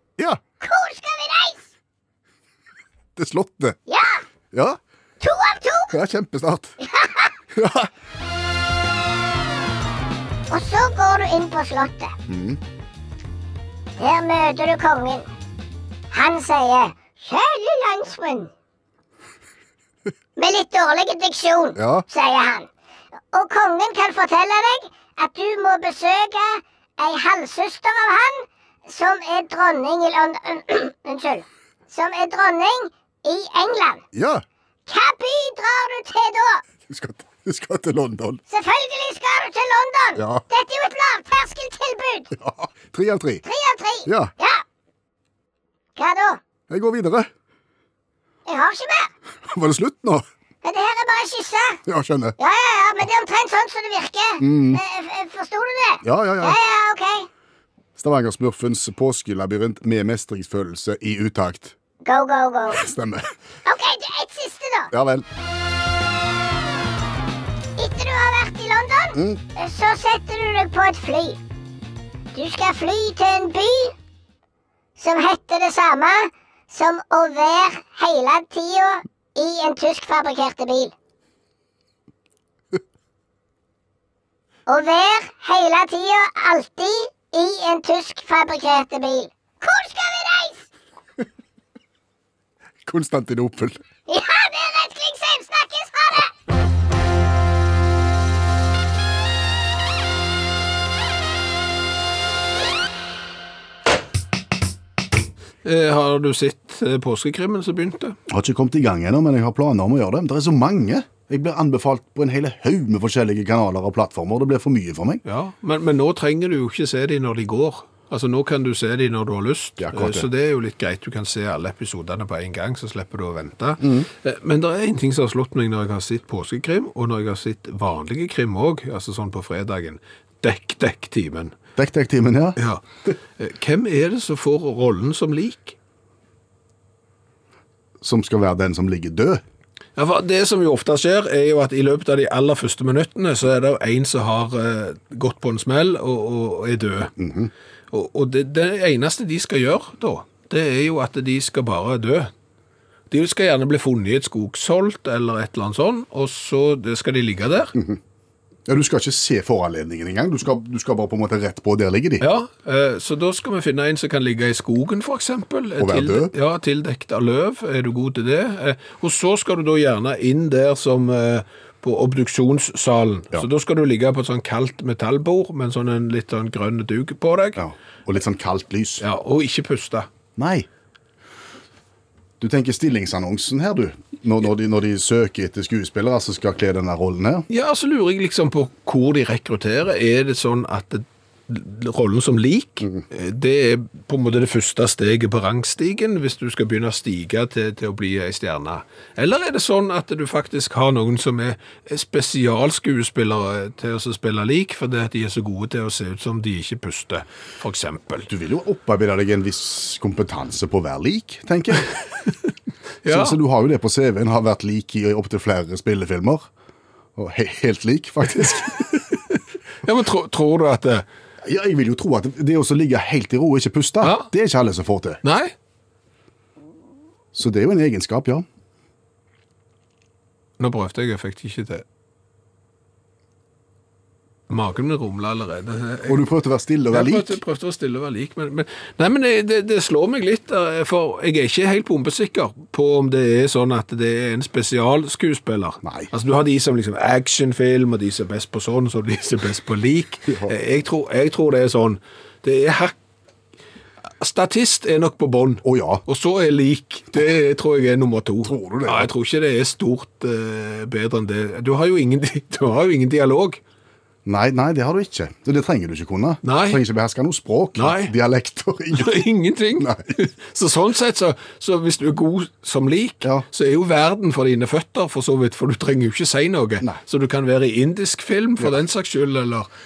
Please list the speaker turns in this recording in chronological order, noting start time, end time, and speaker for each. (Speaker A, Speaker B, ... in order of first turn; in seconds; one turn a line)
Speaker A: 0.6-1.6
Speaker B: 3.2-3.8
Speaker A: 3.9-4.2
Speaker B: 4.5-4.8
Speaker A: 5.2-5.9
Speaker B: 5.9-6.8
Speaker A: 6.8-7.3
Speaker B: 7.5-7.9
Speaker A: 10.5-12.1
Speaker B: 12.3-12.6
Speaker A: 14.0-15.3
Speaker A: 16.1-18.5
Speaker A: 20.4-22.7
Speaker B: 21.8-22.1
Speaker A: 23.3-34.0
Speaker B: 34.1-34.4
Speaker A: 34.9-36.6
Speaker B: 36.9-38.4
Speaker A: 38.5-42.3
Speaker B: 40.2-40.5
Speaker B: 42.4-43.4
Speaker A: 43.4-44.6
Speaker B: 44.1-44.3
Speaker A: 46.0-46.4
Speaker B: 46.7-47.3
Speaker A: 48.5-49.1
Speaker B: 49.4-50.2
Speaker A: 50.6-51.8
Speaker B: 51.9-52.4
Speaker A: 52.4-57.3
Speaker B: 54.4-54.8
Speaker B: 56.0-56.6
Speaker B: 58.0-61.8
Speaker A: 62.0-62.8
Speaker B: 62.7-63.3
Speaker A: 63.7-64.9
Speaker B: 64.9-65.3
Speaker A: 67.8-71.4
Speaker B: 69.1-69.4
Speaker A: 72.3-73.9
Speaker A: 75.0-80.9
Speaker A: 84.7-90.7
Speaker B: 92.8-93.8
Speaker A: 94.1-96.3
Speaker C: 105.6-108.2
Speaker B: 108.3-115.2
Speaker C: 115.3-131.5
Speaker B: 119.8-120.3
Speaker B: 123.8-124.1
Speaker B: 131.8-133.1
Speaker C: 132.6-132.8
Speaker C: 133.4-135.8
Speaker B: 138.0-139.4
Speaker C: 140.0-147.1
Speaker B: 147.2-147.5
Speaker C: 147.9-152.3
Speaker C: 153.1-157.8
Speaker B: 158.7-162.2
Speaker C: 162.2-177.6
Speaker B: 165.8-166.3
Speaker B: 177.6-179.1
Speaker C: 179.0-180.1
Speaker B: 180.4-180.7
Speaker B: 182.4-187.4
Speaker C: 187.5-208.3
Speaker B: 208.3-211.9
Speaker C: 213.0-213.4
Speaker B: 213.1-216.5
Speaker B: 217.2-218.9
Speaker C: 218.4-221.1
Speaker B: 221.4-225.2
Speaker C: 224.0-224.3
Speaker C: 225.2-225.5
Speaker B: 227.3-228.4
Speaker C: 230.6-231.8
Speaker C: 234.5-236.2
Speaker B: 236.1-237.4
Speaker C: 236.9-253.0
Speaker B: 245.8-246.1
Speaker B: 250.3-250.5
Speaker C: 254.2-263.6
Speaker B: 255.6-256.0
Speaker B: 258.4-259.1
Speaker B: 264.2-269.3
Speaker C: 266.4-266.8
Speaker C: 267.8-268.1
Speaker C: 268.9-279.7
Speaker B: 269.8-270.1